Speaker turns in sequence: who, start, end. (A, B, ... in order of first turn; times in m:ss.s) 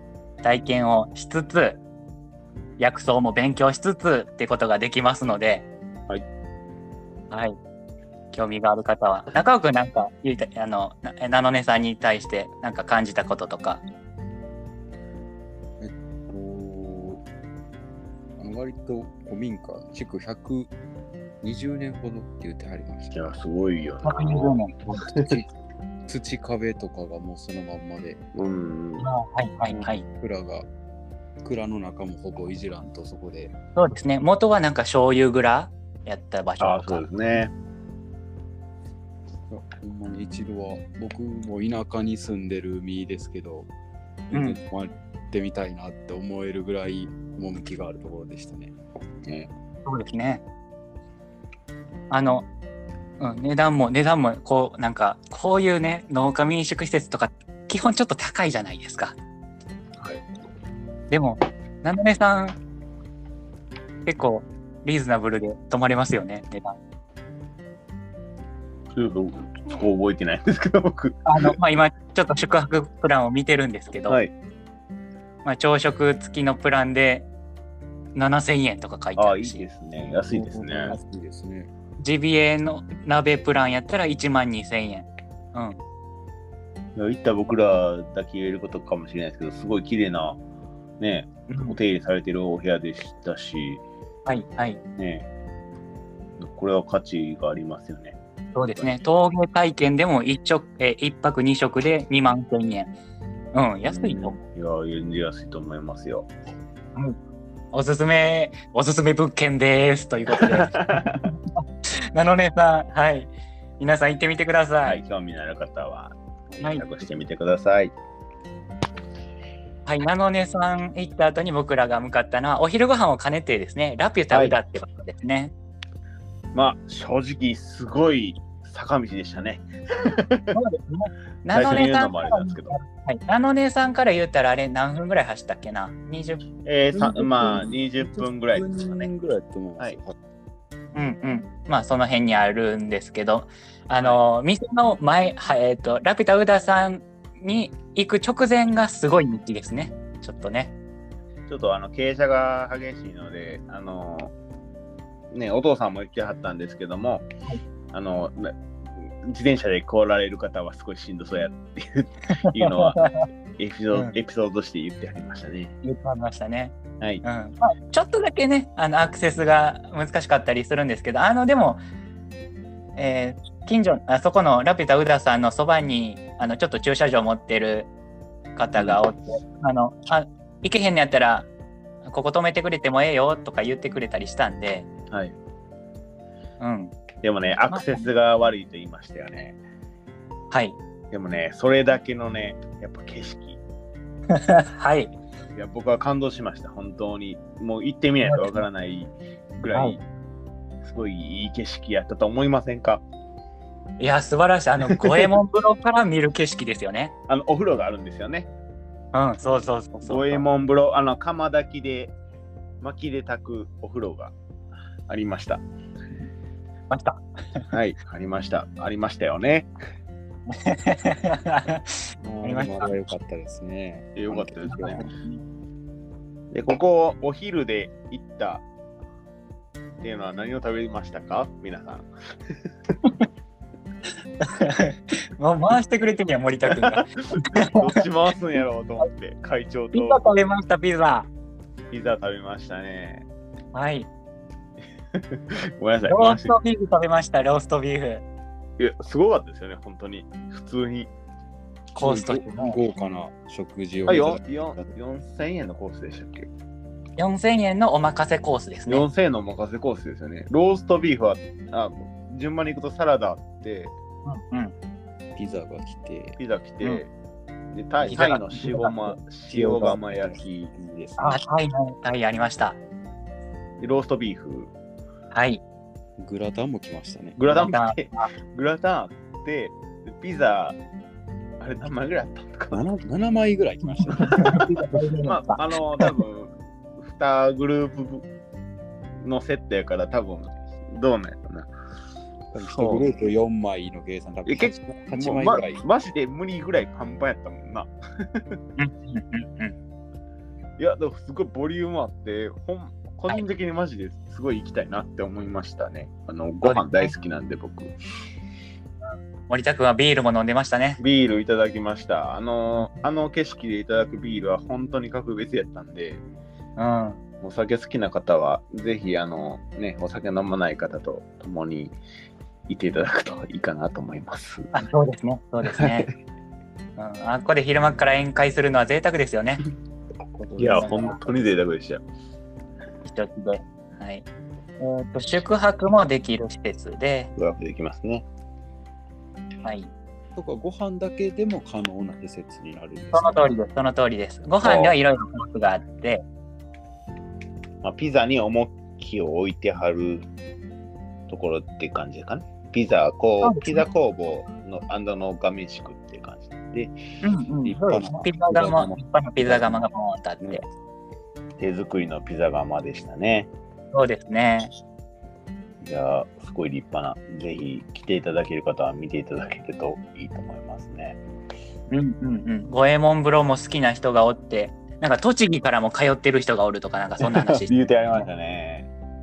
0:00.4-0:01.8 A
0:02.8-0:05.7 A
0:07.3-0:07.6 A
0:08.3-0:13.8 A
0:15.8-0:17.2 B
0:18.4-0:20.7 B
0:21.4-0:23.4 B
0:23.1-0:25.3 C
0:24.0-0:25.1 A
0:25.1-0:25.5 B
0:26.1-0:28.2 B
0:28.3-0:29.1 C
0:29.0-0:30.0 A
0:29.7-0:30.7 B
0:31.4-0:33.5 B
0:33.8-0:37.0 A
0:36.6-0:37.5 C
0:39.5-0:43.7 B
0:44.3-0:48.7 B
0:44.3-0:44.6 A
0:49.2-0:49.5 C
0:49.8-0:50.4 A
0:52.1-0:52.5 A
0:53.2-0:59.2 A
1:01.1-1:02.6 A
1:04.1-1:06.8 A
1:09.0-1:11.6 C
1:11.3-1:14.2 A
1:15.4-1:17.3 A
1:18.2-1:19.6 A
1:19.2-1:21.0 C
1:20.1-1:21.7 B
1:22.0-1:25.8 A
1:27.0-1:30.4 C
1:31.0-1:33.8 C
1:31.5-1:31.8 A
1:34.3-1:34.8 A
1:35.0-1:35.3 C
1:36.4-1:38.2 C
1:38.6-1:42.9 A
1:43.5-1:44.4 A
1:43.8-1:46.3 C
1:47.7-1:55.0 A
1:50.3-1:51.3 C
1:54.8-1:57.9 C
1:56.6-1:56.9 A
1:59.9-2:05.5 A
2:04.3-2:04.6 C
2:06.5-2:10.6 C
2:10.5-2:16.4 A
2:11.5-2:12.8 C
2:16.6-2:19.1 C
2:16.9-2:20.2 B
2:20.9-2:30.7 A
2:31.5-2:34.3 C
2:35.3-2:37.3 C
2:37.9-2:45.7 C
2:42.4-2:43.2 A
2:45.8-2:51.8 A
2:53.0-2:57.9 A
2:58.6-3:01.5 A
2:58.8-2:59.0 C
3:02.0-3:04.9 A
3:06.6-3:07.0 A
3:07.2-3:09.6 C
3:07.7-3:08.1 A
3:10.5-3:10.8 A
3:11.1-3:13.6 C
3:14.3-3:15.1 A
3:15.6-3:20.0 C
3:18.2-3:18.6 A
3:20.8-3:23.0 C
3:24.0-3:27.1 A
3:24.8-3:25.3 C
3:27.3-3:28.5 C
3:29.1-3:30.5 A
3:30.0-3:32.1 C
3:32.8-3:34.3 C
3:35.1-3:35.6 C
3:36.9-3:37.7 A
3:37.7-3:39.7 C
3:40.5-3:43.0 A
3:42.2-3:45.1 B
3:44.2-3:45.0 C
3:44.7-3:45.4 A
3:46.5-3:48.6 C
3:50.0-3:52.5 C
3:54.4-3:58.0 A
3:56.7-4:00.3 C
3:59.9-4:01.3 A
4:01.9-4:03.3 C
4:03.7-4:04.1 A
4:05.2-4:06.6 C
4:06.1-4:08.2 A
4:08.8-4:11.1 C
4:12.0-4:12.8 A
4:12.0-4:14.8 B
4:14.1-4:16.5 C
4:17.2-4:19.0 A
4:18.9-4:23.9 C
4:24.2-4:24.7 A
4:25.4-4:26.4 B
4:26.4-4:27.1 C
4:27.7-4:30.7 C
4:28.0-4:28.4 B
4:28.1-4:29.0 A
4:29.5-4:31.4 B
4:31.2-4:32.8 A
4:33.8-4:34.7 C
4:35.3-4:35.6 A
4:36.2-4:37.4 B
4:37.4-4:40.8 C
4:37.5-4:38.3 A
4:41.6-4:42.9 C
4:42.7-4:44.6 B
4:44.2-4:46.2 A
4:45.2-4:48.2 C
4:49.2-4:51.7 C
4:52.5-4:53.1 C
4:52.5-4:55.8 B
4:54.5-4:58.4 C
4:58.8-4:59.8 A
5:00.8-5:07.9 C
5:06.6-5:07.1 A
5:09.5-5:11.0 A
5:11.0-5:16.2 C
5:16.8-5:17.2 A
5:17.4-5:22.0 C
5:22.7-5:24.8 C
5:24.7-5:26.1 A
5:25.7-5:26.0 C
5:27.0-5:29.6 A
5:30.4-5:31.2 A
5:30.6-5:32.0 C
5:30.6-5:30.9 B
5:33.0-5:34.2 A
5:34.8-5:37.3 A
5:37.4-5:38.2 C
5:39.6-5:39.9 A
5:40.4-5:43.5 B
5:43.1-5:46.2 A
5:44.6-5:45.0 C
5:47.8-5:50.3 C
5:51.3-5:57.0 C
5:53.4-5:53.9 A
5:57.2-6:00.6 A
5:57.6-5:58.9 C
5:59.4-5:59.8 C
6:01.6-6:03.5 C
6:03.9-6:04.7 A
6:05.8-6:11.2 C
6:11.9-6:18.2 A
6:17.2-6:18.9 C